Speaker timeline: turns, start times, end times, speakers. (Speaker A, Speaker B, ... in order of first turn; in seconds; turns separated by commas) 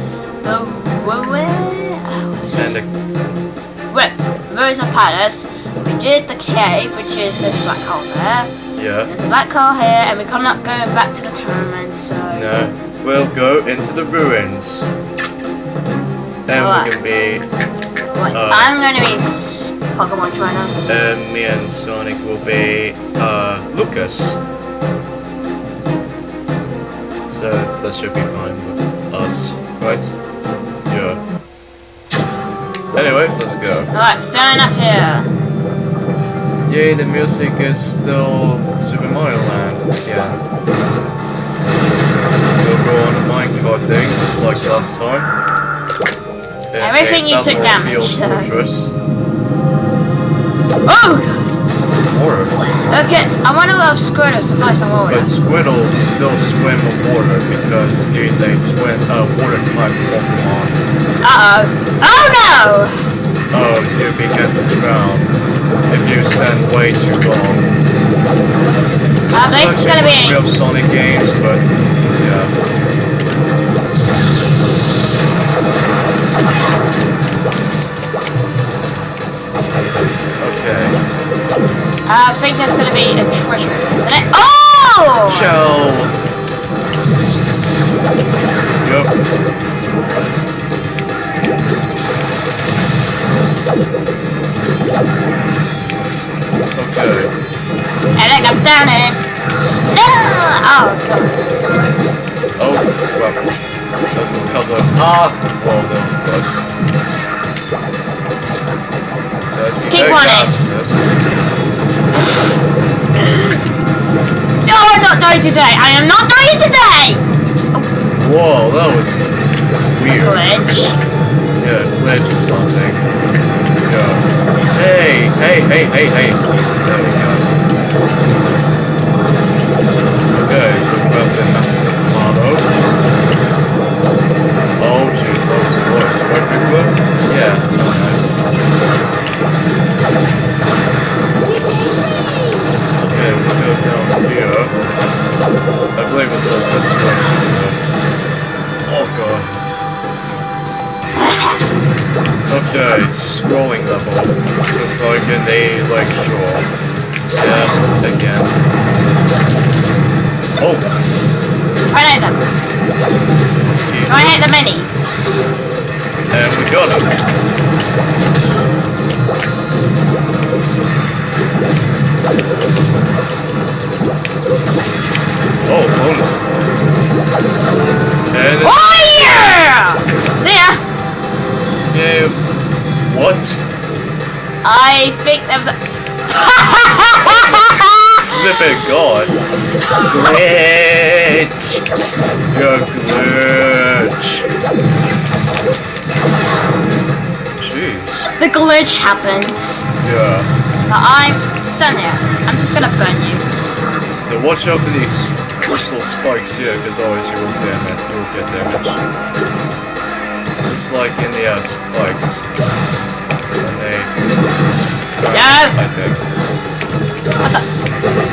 Speaker A: 0.4-2.8, Speaker B: 2.5-2.9, Speaker A: 3.9-8.5, Speaker B: 8.8-9.1, Speaker A: 9.1-12.5, Speaker B: 12.3-14.9, Speaker B: 16.5-17.4, Speaker A: 16.6-16.9, Speaker A: 18.1-20.8, Speaker B: 18.3-18.7, Speaker B: 20.9-24.4, Speaker B: 27.3-30.1, Speaker B: 30.9-31.2, Speaker B: 32.9-33.9, Speaker A: 33.9-35.3, Speaker B: 36.7-40.5, Speaker B: 42.6-45.3, Speaker B: 46.7-48.9, Speaker A: 46.8-48.5, Speaker A: 50.9-51.5, Speaker B: 52.1-52.6, Speaker A: 52.9-55.3, Speaker B: 55.1-60.8, Speaker A: 61.2-63.0, Speaker B: 63.5-65.3, Speaker B: 65.9-67.7, Speaker B: 69.2-72.5, Speaker A: 69.3-70.4, Speaker B: 80.4-81.0, Speaker A: 82.1-85.5, Speaker B: 85.3-86.2, Speaker B: 88.8-89.2, Speaker B: 96.7-97.3, Speaker A: 98.2-99.2, Speaker A: 99.9-101.4, Speaker B: 102.6-103.4, Speaker B: 104.1-106.7, Speaker B: 109.5-111.0, Speaker A: 109.7-110.5, Speaker A: 112.2-112.5, Speaker A: 113.2-113.6, Speaker A: 114.7-117.9, Speaker B: 118.2-119.3, Speaker B: 119.9-120.6, Speaker A: 120.1-121.0, Speaker B: 121.6-123.0, Speaker B: 123.8-127.5, Speaker B: 130.3-132.7, Speaker B: 134.8-138.3, Speaker B: 143.0-144.8, Speaker B: 146.0-147.8, Speaker B: 148.9-149.6, Speaker A: 151.2-151.6, Speaker B: 152.5-156.7, Speaker B: 157.4-158.6, Speaker B: 160.6-160.9, Speaker A: 161.9-162.4, Speaker B: 163.6-164.6, Speaker A: 164.1-165.0, Speaker B: 166.3-167.1, Speaker B: 175.7-176.5, Speaker B: 178.3-179.7, Speaker A: 178.6-180.8, Speaker B: 181.9-182.4, Speaker B: 183.1-183.6, Speaker A: 184.6-185.8, Speaker A: 186.3-188.4, Speaker B: 188.3-189.3, Speaker B: 190.1-191.8, Speaker B: 192.5-194.5, Speaker B: 197.6-198.3, Speaker A: 198.4-199.9, Speaker B: 200.0-200.5, Speaker A: 200.9-203.5, Speaker B: 204.3-209.0, Speaker B: 210.6-212.5, Speaker B: 213.6-214.1, Speaker B: 215.2-216.2, Speaker A: 215.3-215.8